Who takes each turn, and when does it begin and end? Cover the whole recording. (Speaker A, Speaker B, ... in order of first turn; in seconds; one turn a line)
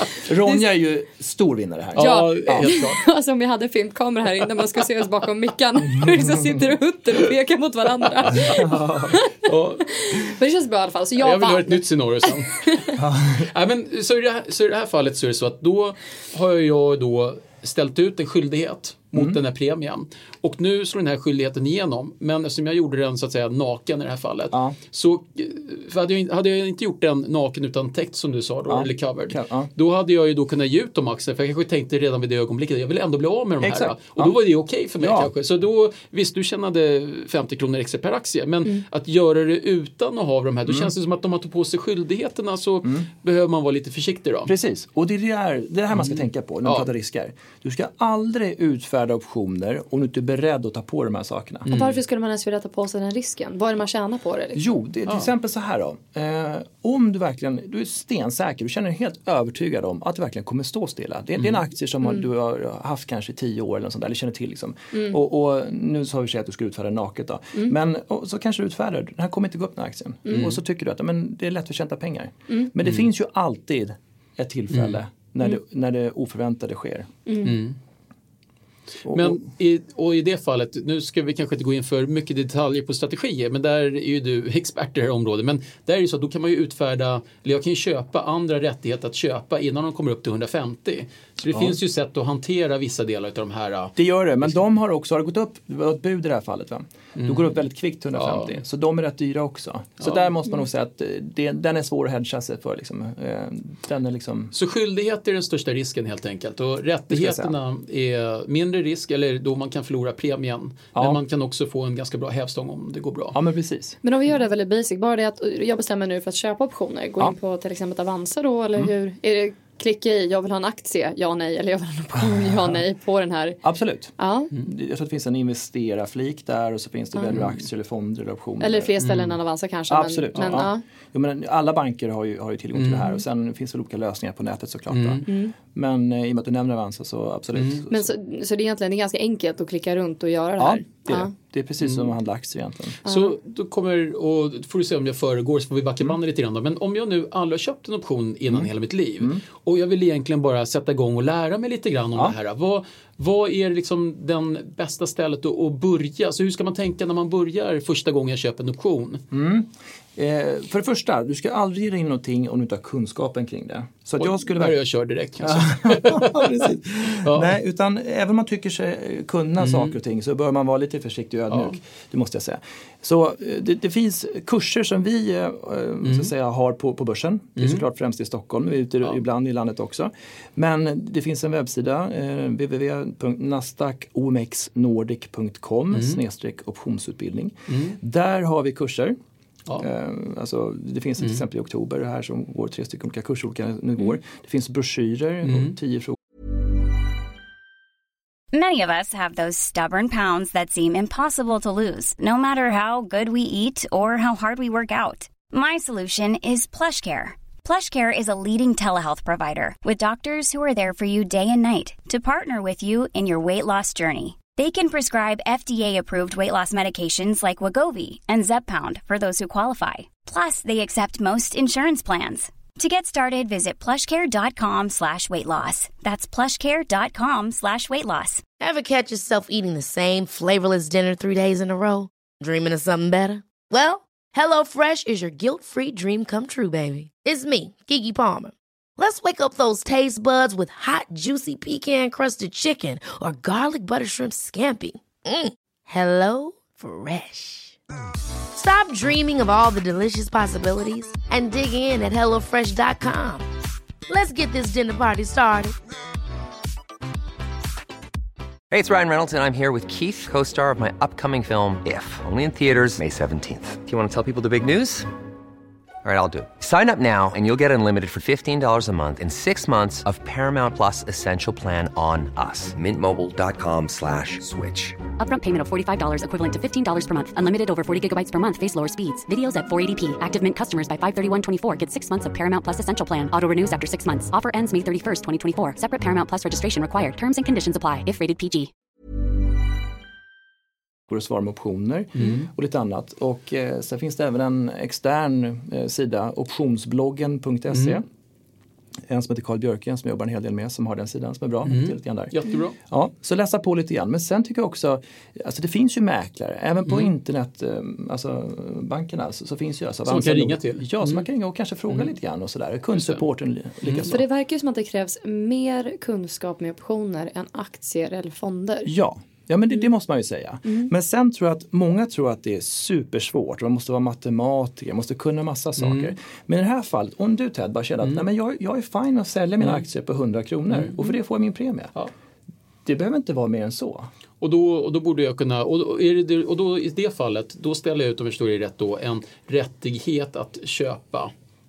Speaker A: 0.2-2.8
Speaker B: 1.9-3.0
Speaker C: 1.9-9.4
Speaker A: 8.3-9.2
Speaker B: 9.4-9.8
Speaker C: 9.9-13.0
Speaker B: 11.2-12.9
Speaker A: 13.0-13.5
Speaker B: 13.4-44.5
Speaker A: 24.5-24.8
Speaker A: 28.7-29.7
Speaker A: 33.6-34.4
Speaker A: 35.0-35.3
Speaker A: 40.7-40.9
Speaker A: 44.5-51.7
Speaker B: 45.9-46.9
Speaker B: 51.6-52.0
Speaker C: 51.7-54.7
Speaker A: 54.5-77.1
Speaker B: 61.4-61.6
Speaker C: 64.9-65.2
Speaker B: 70.3-70.6
Speaker B: 74.7-75.0
Speaker C: 77.2-77.5
Speaker B: 77.4-77.8
Speaker A: 79.0-79.4
Speaker B: 79.1-94.5
Speaker A: 91.5-91.8
Speaker A: 94.0-104.5
Speaker B: 97.2-97.5
Speaker B: 98.1-98.6
Speaker B: 100.0-100.3
Speaker B: 104.5-113.4
Speaker A: 107.1-107.5
Speaker A: 113.3-114.0
Speaker C: 114.0-123.6
Speaker A: 123.6-128.9
Speaker C: 124.2-124.5
Speaker C: 128.6-130.8
Speaker B: 129.0-129.4
Speaker A: 129.9-138.1
Speaker B: 132.8-133.1
Speaker B: 134.9-135.2
Speaker C: 135.3-135.5
Speaker B: 137.6-137.8
Speaker C: 137.9-141.3
Speaker A: 140.6-143.0
Speaker B: 141.8-142.1
Speaker B: 143.0-159.2
Speaker C: 143.1-143.3
Speaker A: 148.5-149.4
Speaker A: 159.3-164.8
Speaker B: 164.2-167.6
Speaker A: 165.4-189.2
Speaker B: 169.6-169.9
Speaker B: 171.5-171.8
Speaker B: 176.0-176.3
Speaker B: 185.9-186.2
Speaker B: 187.7-188.0
Speaker A: 189.8-196.2
Speaker B: 195.4-195.7
Speaker D: 198.5-228.4
Speaker E: 228.6-247.8
Speaker E: 248.5-253.4
Speaker E: 254.1-255.7
Speaker F: 258.7-265.1
Speaker F: 266.0-275.0
Speaker G: 275.2-288.7
Speaker A: 291.1-298.0
Speaker B: 292.1-292.5
Speaker B: 297.7-298.0
Speaker A: 299.1-302.3
Speaker B: 301.6-302.8
Speaker A: 302.9-314.2
Speaker B: 306.9-307.1
Speaker B: 310.1-311.2
Speaker B: 312.9-313.2
Speaker B: 313.8-314.2
Speaker C: 314.1-318.9
Speaker A: 318.8-331.9
Speaker B: 325.8-326.1
Speaker B: 330.7-331.1
Speaker A: 332.8-334.1
Speaker B: 334.4-341.3